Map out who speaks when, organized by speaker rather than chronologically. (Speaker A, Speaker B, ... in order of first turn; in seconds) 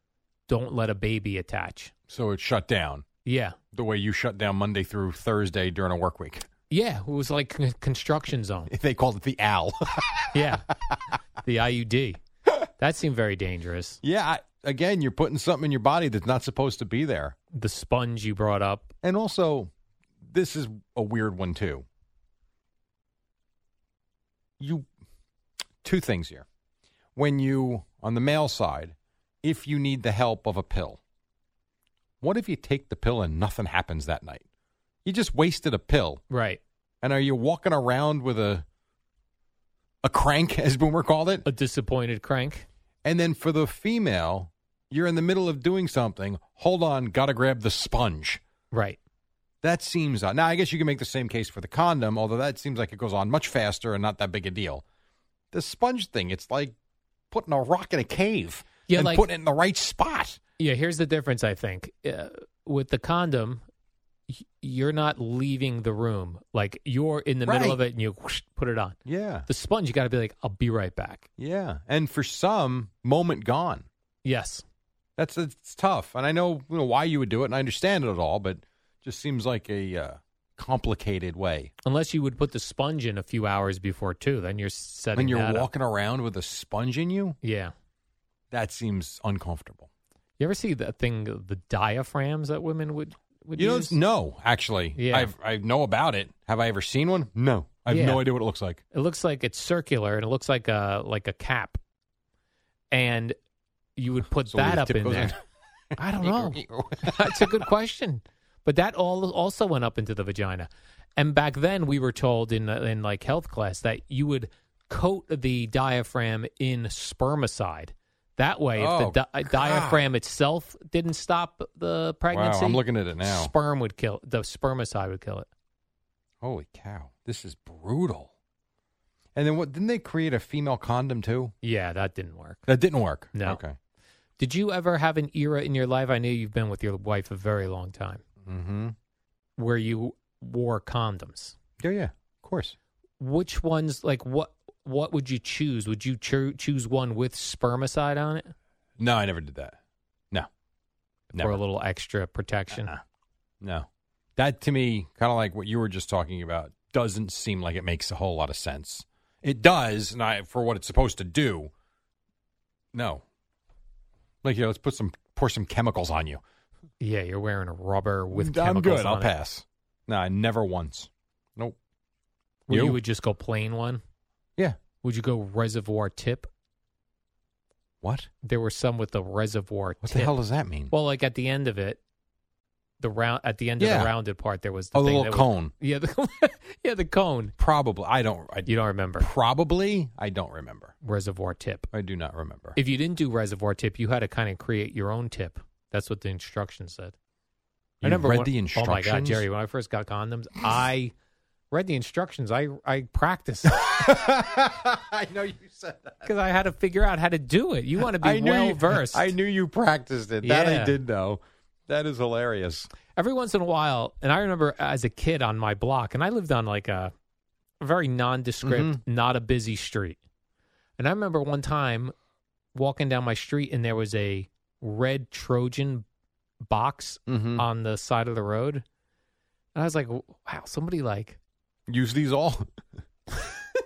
Speaker A: 0.5-1.9, 3.2-3.6, 6.7-8.7, 10.3-10.7, 11.4-12.2, 12.8-14.0, 17.5-18.9, 36.3-36.6, 41.4-42.6, 48.7-49.0, 58.9-59.2, 60.6-63.6, 64.3-71.3, 74.2-74.6, 81.8-85.7, 87.4-87.7, 90.4-94.0, 94.9-95.3, 97.9-98.2, 98.9-101.8, 102.9-103.3, 104.0-105.3, 106.0-125.5, 131.6-132.7, 133.3-133.6, 134.4-138.2, 139.6-141.6, 143.2-148.5, 151.3-152.9, 167.0-169.3, 172.7-174.0, 175.0-176.5, 178.4-180.3, 180.9-182.0, 183.0-187.5, 188.7-189.3, 191.0-191.9, 192.8-197.1, 198.0-201.1, 201.7-203.8, 206.2-209.3, 210.4-211.0, 213.2-217.1, 217.8-220.2, 221.0-222.1, 222.7-226.0, 226.6-228.8, 229.7-231.4
Speaker B: 2.1-3.0, 3.7-6.5, 8.7-10.6, 14.0-17.4, 19.0-21.9, 24.6-24.9, 25.8-26.4, 27.1-31.0, 32.2-34.4, 35.0-36.2, 37.0-38.6, 40.0-41.5, 43.0-48.4, 49.6-54.8, 55.5-56.7, 57.3-60.4, 67.5-67.8, 69.0-69.5, 71.4-73.8, 75.2-81.7, 85.1-87.4, 88.5-89.9, 93.5-98.8, 104.5-105.4, 105.9-107.7, 118.8-120.0, 122.3-123.5, 126.4-128.3, 129.3-131.5, 132.7-133.8, 138.4-138.9, 141.8-142.7, 149.0-149.8, 151.3-151.6, 152.7-153.0, 153.6-161.7, 162.9-163.2, 164.4-166.4, 168.3-171.8, 172.7-173.0, 178.0-178.3, 180.0-180.9, 183.8-184.1, 184.9-185.7, 187.6-190.9, 191.9-192.8, 198.0-199.5, 203.7-206.3, 208.0-212.9, 218.6-219.0, 227.3-227.6, 231.9-232.7